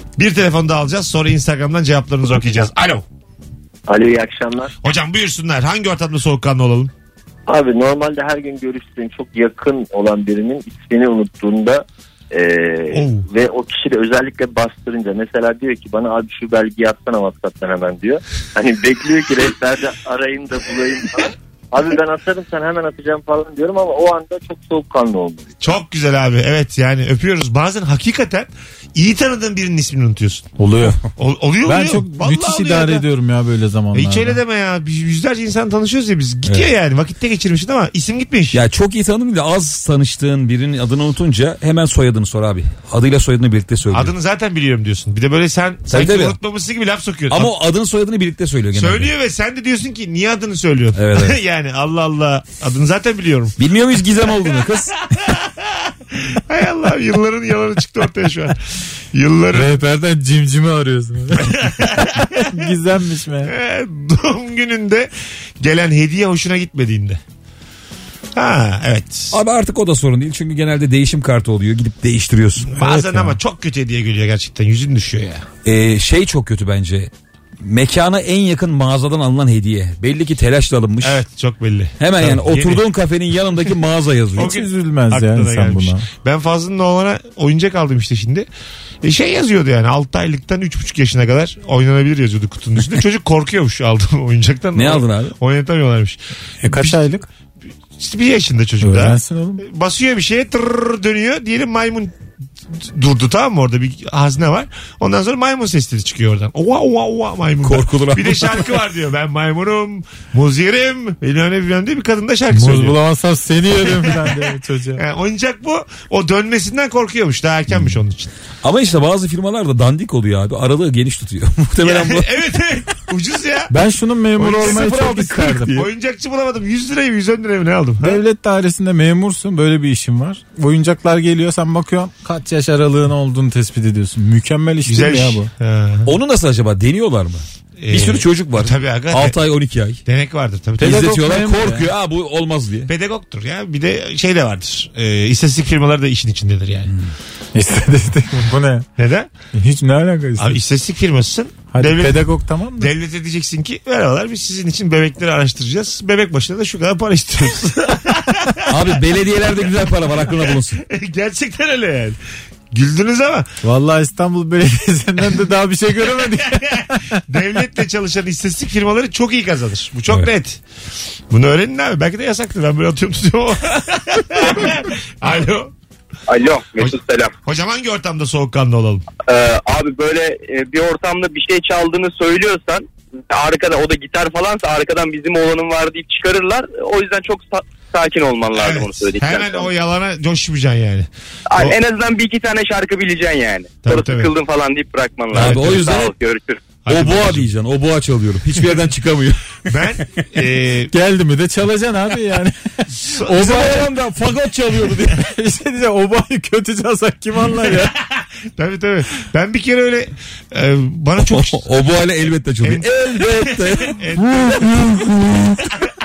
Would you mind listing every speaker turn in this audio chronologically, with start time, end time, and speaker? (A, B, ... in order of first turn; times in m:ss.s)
0:00.2-0:03.0 A
0:03.9-0:04.7 B
0:04.8-0:06.9 A
0:07.5-0:25.7 B
0:12.9-0:13.3 A
0:25.6-0:33.1 A
0:30.6-0:31.0 C
0:31.7-0:34.4 C
0:33.9-0:38.6 A
0:38.5-0:44.1 D
0:43.9-0:47.5 A
0:45.9-0:46.4 D
0:47.3-0:49.1 D
0:48.8-0:53.6 A
0:51.0-0:51.4 D
0:53.6-0:55.0 D
0:55.2-0:58.6 A
0:59.1-0:59.8 A
0:59.5-1:03.5 C
1:01.3-1:02.6 A
1:03.4-1:07.2 A
1:08.4-1:09.4 A
1:09.3-1:12.8 D
1:12.7-1:15.5 A
1:12.8-1:13.4 C
1:15.6-1:21.2 D
1:21.0-1:22.8 A
1:22.0-1:24.6 D
1:24.4-1:26.1 C
1:24.4-1:28.5 A
1:29.0-1:37.0 A
1:34.8-1:35.4 D
1:36.6-1:37.3 C
1:38.0-1:42.2 A
1:38.8-1:39.6 C
1:42.7-1:53.0 A
1:47.6-1:48.7 D
1:52.5-1:55.0 C
1:53.8-1:54.4 A
1:55.0-1:58.3 A
1:58.6-2:02.5 D
2:01.8-2:03.7 A
2:03.7-2:05.7 C
2:04.4-2:05.9 D
2:04.6-2:04.9 A
2:05.7-2:08.2 A
2:08.0-2:15.5 C
2:14.9-2:16.1 A
2:16.1-2:20.0 D
2:17.8-2:19.4 A
2:20.1-2:21.2 A
2:20.8-2:21.8 C
2:20.8-2:22.9 D
2:22.9-2:26.9 A
2:27.6-2:28.9 C
2:29.0-2:29.3 A
2:29.5-2:30.6 C
2:30.4-2:38.7 A
2:31.7-2:32.9 C
2:38.7-2:40.8 D
2:40.1-2:42.2 A
2:42.7-2:43.5 A
2:43.6-2:47.2 C
2:46.0-2:50.6 A
2:51.3-2:55.7 A
2:56.3-2:57.3 E
2:57.4-2:59.1 A
2:59.2-3:09.7 E
3:08.6-3:11.7 A
3:11.5-3:16.7 E
3:13.8-3:14.3 A
3:15.3-3:16.1 D
3:15.4-3:15.9 A
3:16.8-3:17.5 A
3:16.9-3:19.5 D
3:19.6-3:20.9 A
3:20.9-3:28.0 C
3:22.9-3:23.9 A
3:23.4-3:23.9 D
3:24.6-3:25.1 D
3:28.6-3:31.6 A
3:31.2-3:34.0 D
3:32.6-3:34.7 A
3:34.2-3:35.6 C